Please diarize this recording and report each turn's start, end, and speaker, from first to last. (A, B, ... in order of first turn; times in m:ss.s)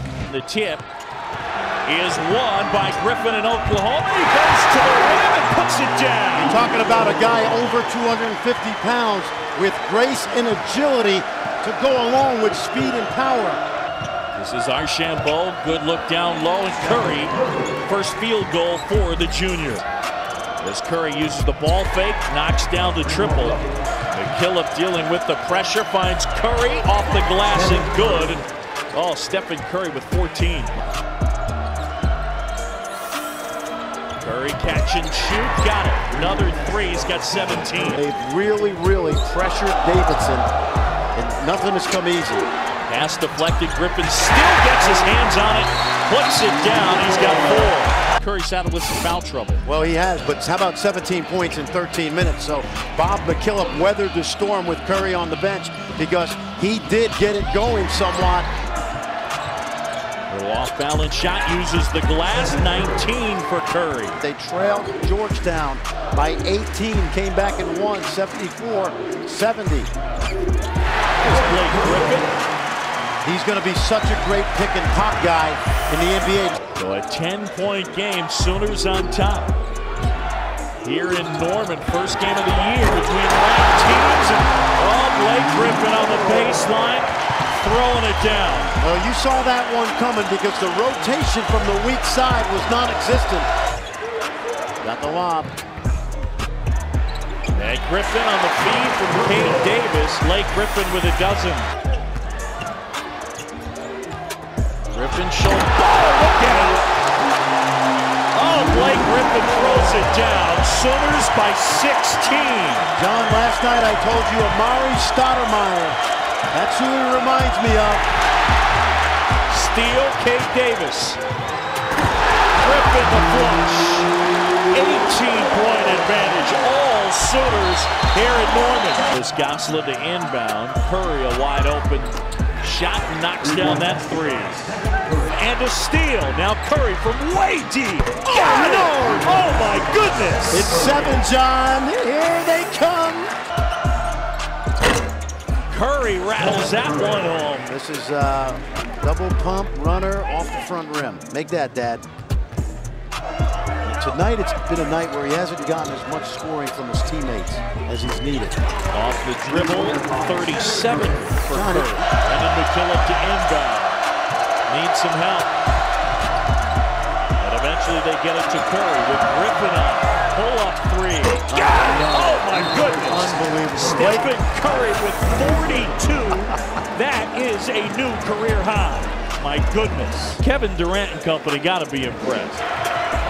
0:00.3-0:00.8 A
0:01.9-0:06.6 A
0:06.4-0:13.6 B
0:14.4-0:17.3 A
0:17.9-0:19.8 A
0:20.6-0:30.8 A
0:34.2-0:38.0 A
0:37.9-0:40.5 B
0:41.2-0:42.5 B
0:42.9-0:49.6 A
0:49.6-0:58.5 B
1:00.3-1:04.2 A
1:04.2-1:09.9 B
1:11.2-1:12.3 A
1:13.2-1:16.6 B
1:16.8-1:19.6 A
1:20.8-1:28.7 A
1:28.8-1:33.5 B
1:34.8-1:35.5 B
1:37.5-1:41.7 A
1:44.9-1:46.9 A
1:48.3-1:52.9 A
1:52.9-1:56.0 B
1:56.5-1:58.0 B
1:59.5-2:01.2 A
2:02.5-2:04.1 A
2:04.7-2:14.6 A
2:15.1-2:20.9 A
2:18.3-2:19.2 B
2:20.5-2:23.3 B
2:25.7-2:27.7 A
2:27.7-2:32.0 B
2:33.8-2:38.6 B
2:38.9-2:44.0 A
2:41.5-2:42.0 B
2:44.7-2:45.5 A
2:47.4-3:02.6 A
2:51.5-2:54.3 B